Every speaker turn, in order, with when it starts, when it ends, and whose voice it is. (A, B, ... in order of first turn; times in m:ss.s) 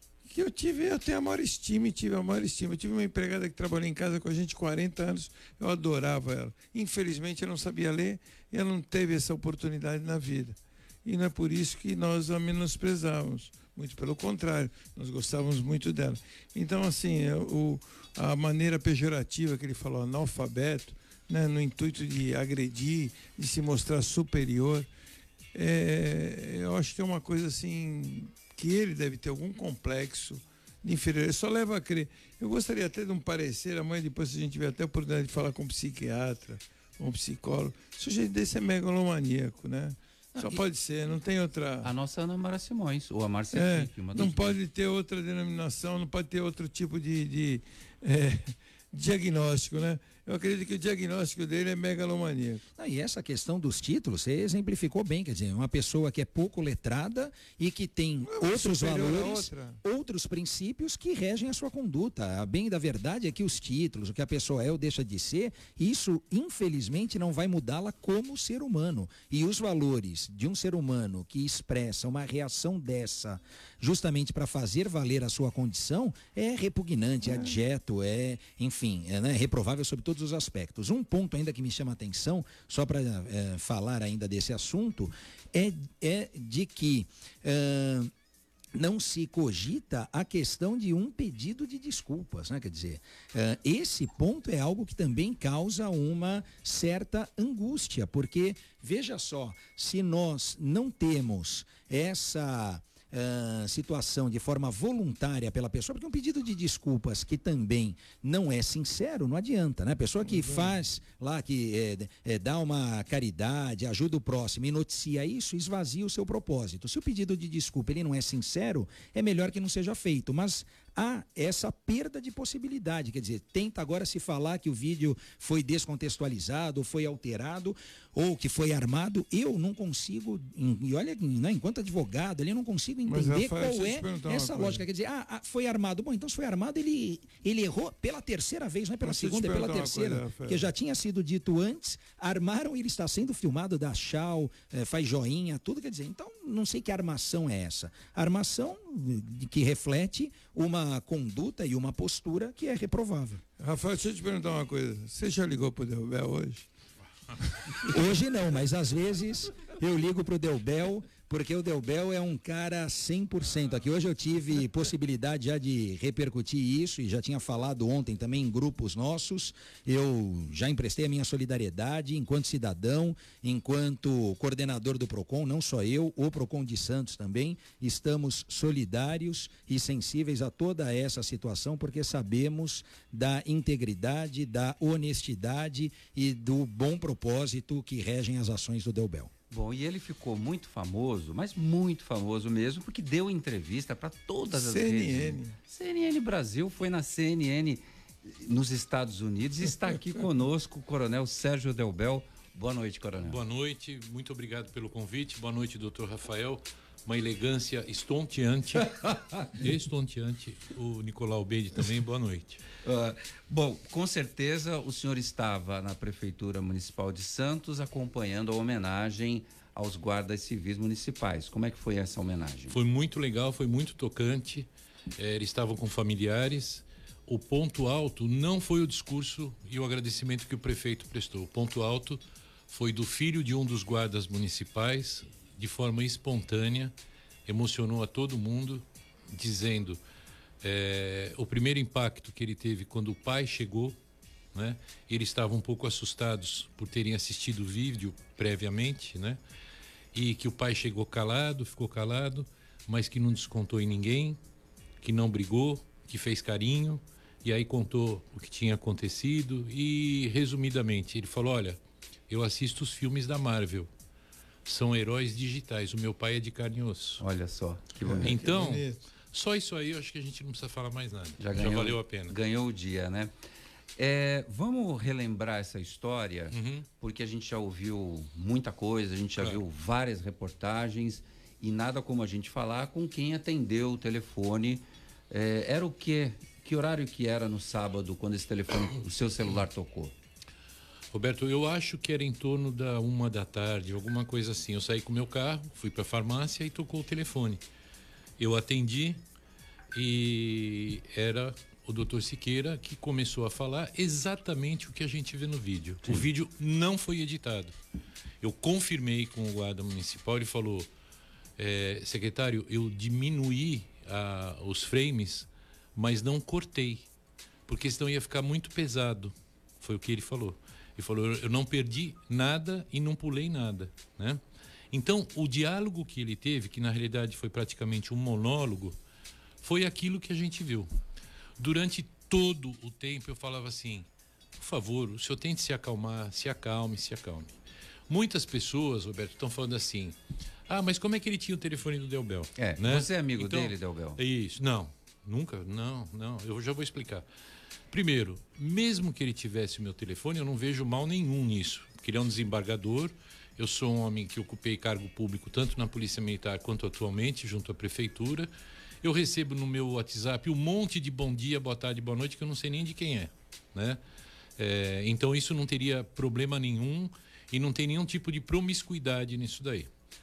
0:00.3-0:24.9 A
0:25.5-0:41.9 A
0:40.3-0:40.6 B
0:41.8-0:44.6 B
0:43.5-0:52.6 A
0:52.8-1:28.1 C
0:58.2-0:59.8 A
1:28.7-2:33.4 C
1:50.2-1:50.7 A
2:13.1-2:14.8 A
2:19.0-2:20.7 A
2:33.6-2:36.7 A
2:37.6-2:37.9 A
2:37.8-3:09.3 C
3:09.5-3:23.4 B
3:14.5-3:15.6 A
3:23.2-3:32.6 D
3:32.8-3:42.8 B
3:42.7-3:56.9 D
3:57.4-4:00.0 D
4:00.6-4:04.0 D
4:04.5-4:09.4 D
4:10.1-4:14.4 D
4:15.0-4:23.9 D
4:24.6-4:27.2 D
4:27.2-4:28.3 B
4:28.0-4:29.0 A
4:28.2-4:32.3 D
4:31.4-4:33.3 B
4:34.0-4:50.1 B
4:36.5-4:36.8 D
4:51.1-4:57.6 D
4:58.4-4:59.2 D
4:59.9-5:07.7 D
5:08.4-5:10.9 D
5:11.6-5:17.1 D
5:17.7-5:29.0 D
5:29.6-5:30.9 D
5:31.6-5:37.5 D
5:38.1-5:40.2 D
5:40.7-5:47.2 D
5:42.6-5:44.2 B
5:47.9-5:58.5 D
5:59.0-6:04.0 D
6:04.6-6:09.9 D